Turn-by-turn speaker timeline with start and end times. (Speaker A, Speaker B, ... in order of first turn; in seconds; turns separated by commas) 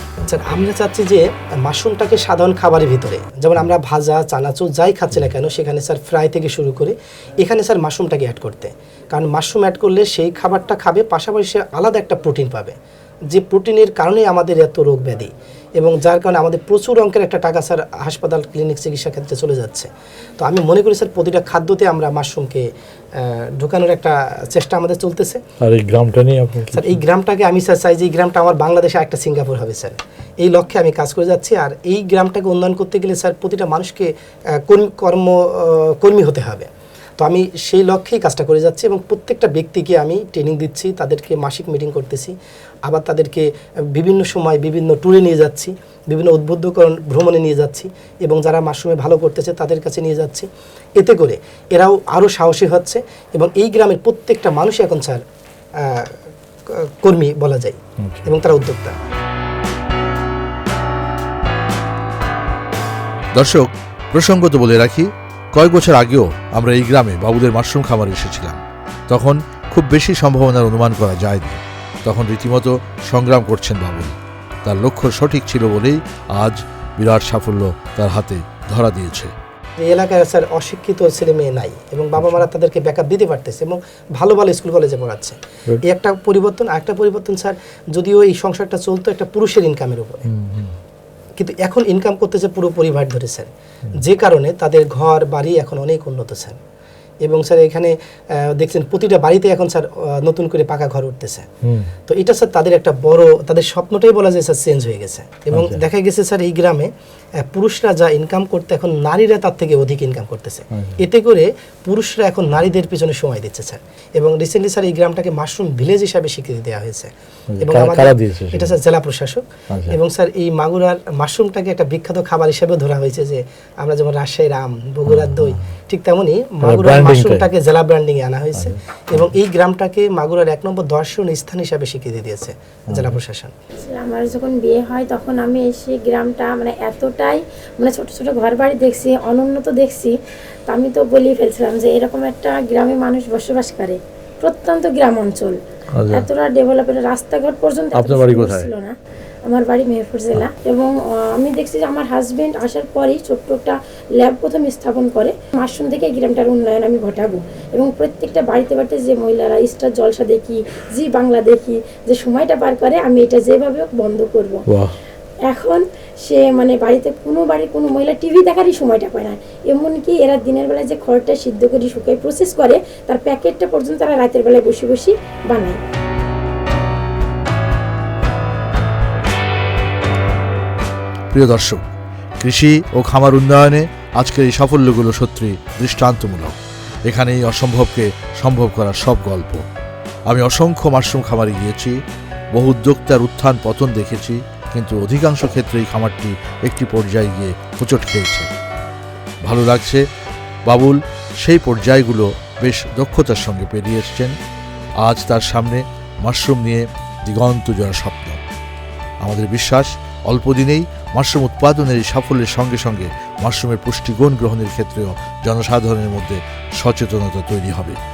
Speaker A: 0.2-12.8, Speaker A: 13.3-25.4, Speaker B: 25.6-27.0, Speaker A: 26.7-55.2, Speaker A: 55.8-56.2, Speaker A: 56.7-59.0, Speaker B: 58.0-58.3, Speaker B: 63.3-79.3, Speaker A: 79.8-90.3, Speaker B: 82.2-82.5, Speaker B: 90.3-90.8, Speaker A: 91.4-96.6, Speaker A: 97.2-101.5, Speaker B: 101.6-101.9, Speaker A: 102.1-106.9, Speaker B: 105.5-105.8, Speaker A: 107.4-117.1, Speaker B: 110.7-111.0, Speaker B: 117.5-118.8, Speaker A: 117.6-133.6, Speaker B: 119.7-120.0, Speaker B: 125.1-125.7, Speaker B: 126.6-127.5, Speaker B: 128.6-129.3, Speaker B: 132.9-133.2, Speaker C: 133.8-140.2, Speaker C: 140.7-145.6, Speaker B: 146.0-146.3, Speaker C: 146.1-148.9, Speaker B: 147.9-148.7, Speaker C: 149.5-164.6, Speaker B: 164.7-165.0, Speaker C: 165.5-175.8, Speaker B: 181.3-189.7, Speaker B: 190.3-192.0, Speaker B: 192.5-198.5, Speaker B: 199.4-200.0, Speaker B: 200.7-204.4, Speaker B: 205.0-208.4, Speaker B: 209.2-218.0